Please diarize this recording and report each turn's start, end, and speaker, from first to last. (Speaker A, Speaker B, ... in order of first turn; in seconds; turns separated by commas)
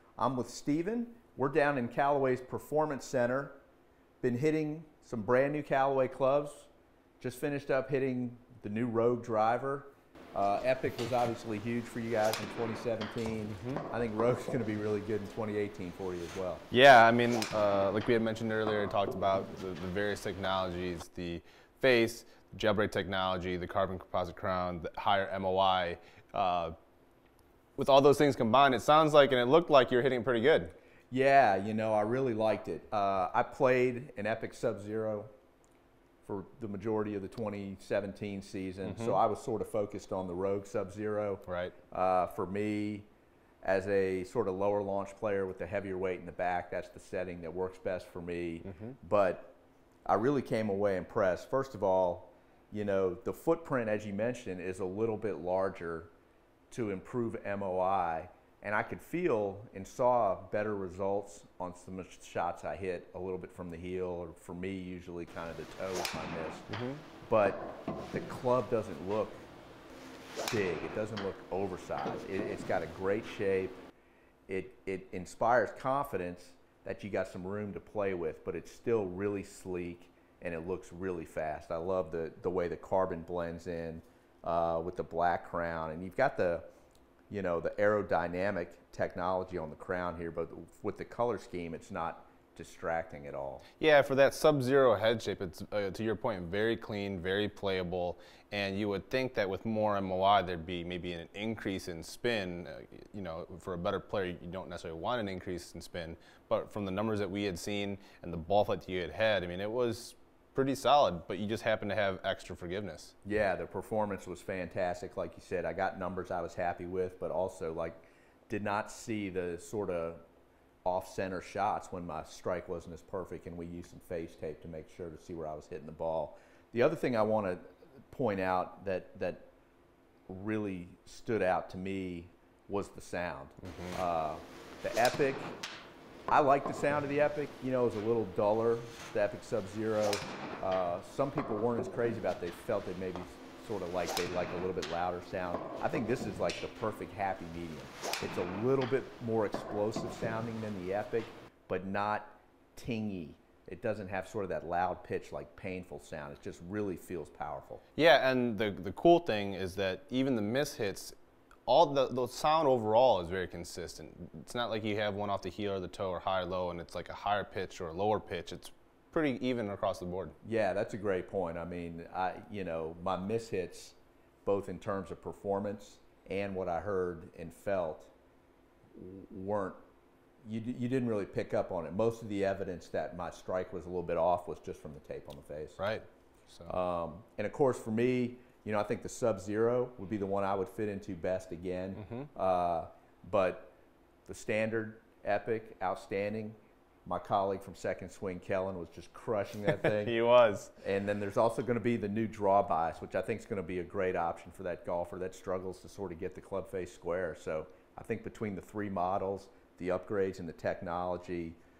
Speaker A: 0.2-3.6, Speaker A: 4.2-16.6, Speaker B: 13.6-13.8, Speaker B: 16.7-26.7, Speaker B: 27.8-30.7, Speaker A: 31.1-35.3, Speaker A: 36.2-43.1, Speaker B: 38.8-39.2, Speaker B: 41.5-41.7, Speaker A: 43.6-49.5, Speaker B: 48.6-48.9, Speaker A: 50.0-56.1, Speaker A: 56.7-66.7, Speaker B: 66.7-67.0, Speaker A: 67.2-69.5, Speaker A: 70.5-73.8, Speaker A: 74.5-86.7, Speaker A: 87.3-93.6, Speaker B: 93.8-113.1, Speaker A: 113.2-120.2, Speaker A: 120.8-129.5, Speaker A: 130.3-135.6, Speaker B: 133.6-134.0, Speaker A: 136.3-157.8, Speaker B: 158.0-161.1, Speaker B: 161.7-170.3, Speaker A: 170.4-178.1, Speaker A: 178.9-179.8, Speaker A: 180.4-185.8, Speaker B: 185.8-186.8, Speaker A: 186.7-193.7, Speaker B: 192.0-192.3, Speaker A: 194.2-200.1, Speaker B: 199.7-200.7, Speaker A: 200.8-211.6